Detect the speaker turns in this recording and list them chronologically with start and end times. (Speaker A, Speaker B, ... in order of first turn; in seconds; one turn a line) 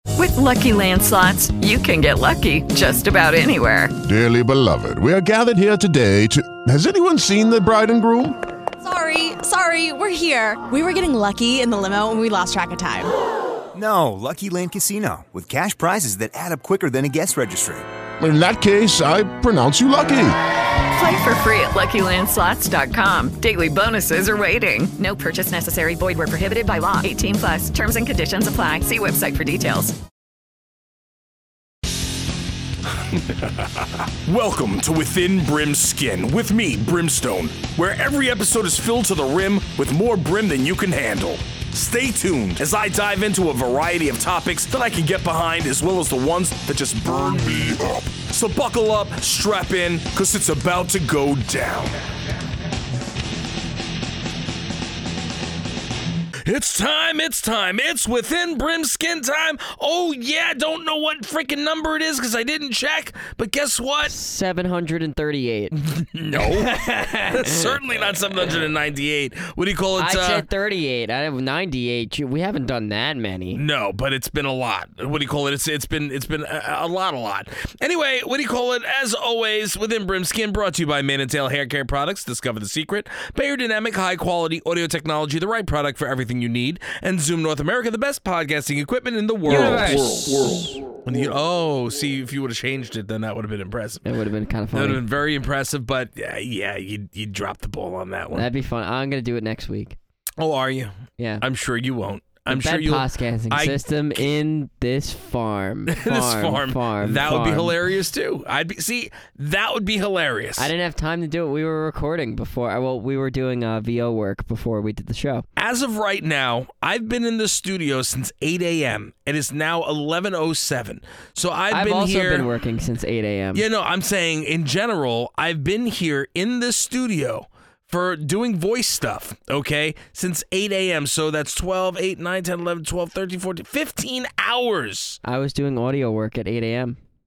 Speaker A: 0.1-3.9
Speaker B: 4.0-8.4
Speaker C: 8.8-13.1
Speaker D: 13.7-17.8
Speaker B: 18.2-20.3
Speaker A: 20.9-29.9
Speaker E: 33.2-33.6
Speaker E: 34.2-51.9
Speaker E: 56.4-64.1
Speaker F: 64.0-65.7
Speaker E: 65.8-70.5
Speaker F: 66.3-68.5
Speaker F: 70.0-73.6
Speaker E: 73.5-94.1
Speaker F: 89.5-90.7
Speaker F: 94.0-95.0
Speaker E: 94.7-98.5
Speaker F: 98.3-100.0
Speaker E: 100.4-104.3
Speaker F: 101.2-101.4
Speaker F: 102.5-107.8
Speaker E: 105.9-110.7
Speaker F: 110.6-115.5
Speaker E: 115.6-122.5
Speaker F: 121.7-123.6
Speaker E: 123.5-135.2
Speaker F: 135.2-137.0